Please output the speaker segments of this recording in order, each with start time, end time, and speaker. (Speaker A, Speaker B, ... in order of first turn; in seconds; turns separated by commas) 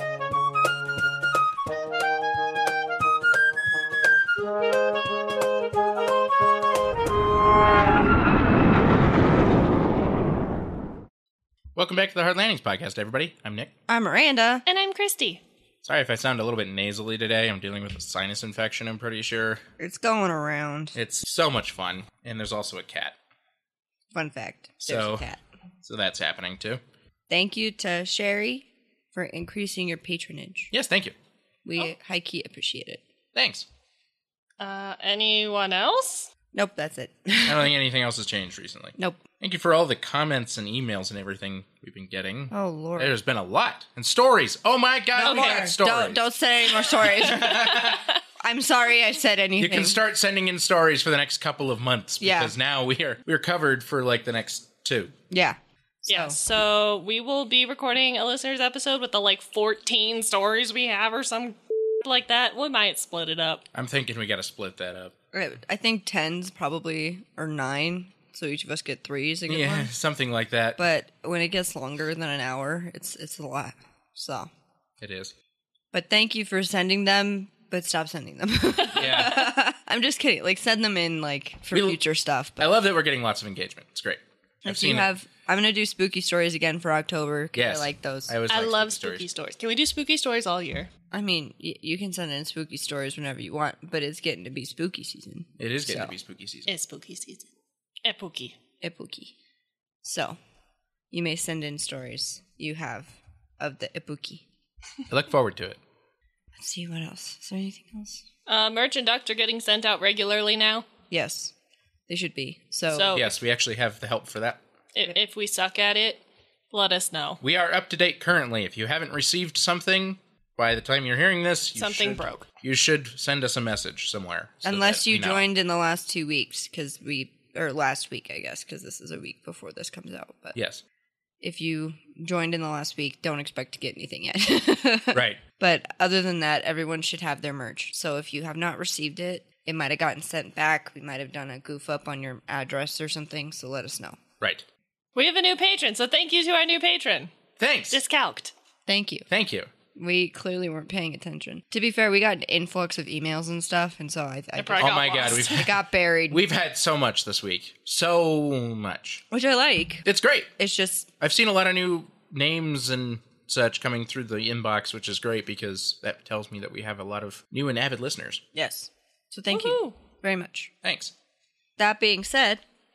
Speaker A: 11.8-13.7, Speaker B: 13.9-14.6, Speaker C: 14.7-15.4, Speaker A: 15.8-19.6, Speaker B: 19.8-21.0, Speaker A: 20.9-23.2, Speaker B: 24.1-25.4, Speaker A: 24.8-25.3, Speaker A: 25.8-26.8, Speaker B: 27.3-30.7, Speaker A: 30.7-31.1, Speaker B: 31.6-33.0, Speaker A: 33.4-33.7, Speaker C: 34.6-36.3, Speaker B: 36.5-37.7, Speaker A: 37.5-46.2, Speaker B: 42.5-43.1, Speaker B: 45.1-50.0, Speaker C: 45.3-45.7, Speaker A: 46.9-48.1, Speaker A: 49.6-55.1, Speaker B: 52.2-52.5, Speaker B: 55.3-56.4, Speaker C: 56.1-63.6, Speaker A: 63.7-65.1, Speaker B: 65.3-69.9, Speaker A: 69.5-70.8, Speaker B: 70.8-74.5, Speaker A: 75.0-75.3, Speaker B: 75.9-82.7, Speaker A: 79.0-79.5, Speaker A: 81.7-82.0, Speaker A: 82.6-85.1, Speaker B: 84.6-88.4, Speaker A: 87.5-89.3, Speaker C: 88.5-90.9, Speaker B: 91.1-96.1, Speaker A: 95.6-96.7, Speaker C: 96.7-97.5, Speaker C: 98.0-98.5, Speaker B: 98.8-99.3, Speaker B: 100.0-100.4, Speaker B: 101.1-104.4, Speaker A: 105.1-105.8, Speaker B: 106.6-108.2, Speaker C: 108.5-110.9, Speaker B: 111.1-111.5, Speaker B: 112.1-113.2, Speaker C: 112.9-113.3, Speaker A: 113.1-114.6, Speaker C: 115.0-116.2, Speaker C: 116.7-117.4, Speaker A: 117.4-125.4, Speaker C: 121.8-122.5, Speaker B: 124.7-130.6, Speaker A: 130.6-130.8, Speaker B: 131.4-144.2, Speaker A: 135.1-135.4, Speaker A: 144.4-144.7, Speaker C: 145.2-147.3, Speaker A: 147.6-148.0, Speaker C: 147.9-148.5, Speaker B: 148.9-149.3, Speaker A: 149.3-149.7, Speaker B: 149.9-156.4, Speaker C: 154.6-155.8, Speaker A: 154.8-155.8, Speaker A: 156.3-159.2, Speaker B: 159.3-161.1, Speaker A: 160.1-160.5, Speaker A: 161.2-168.4, Speaker B: 168.5-170.7, Speaker C: 169.5-170.0, Speaker A: 170.8-171.1, Speaker B: 171.8-172.6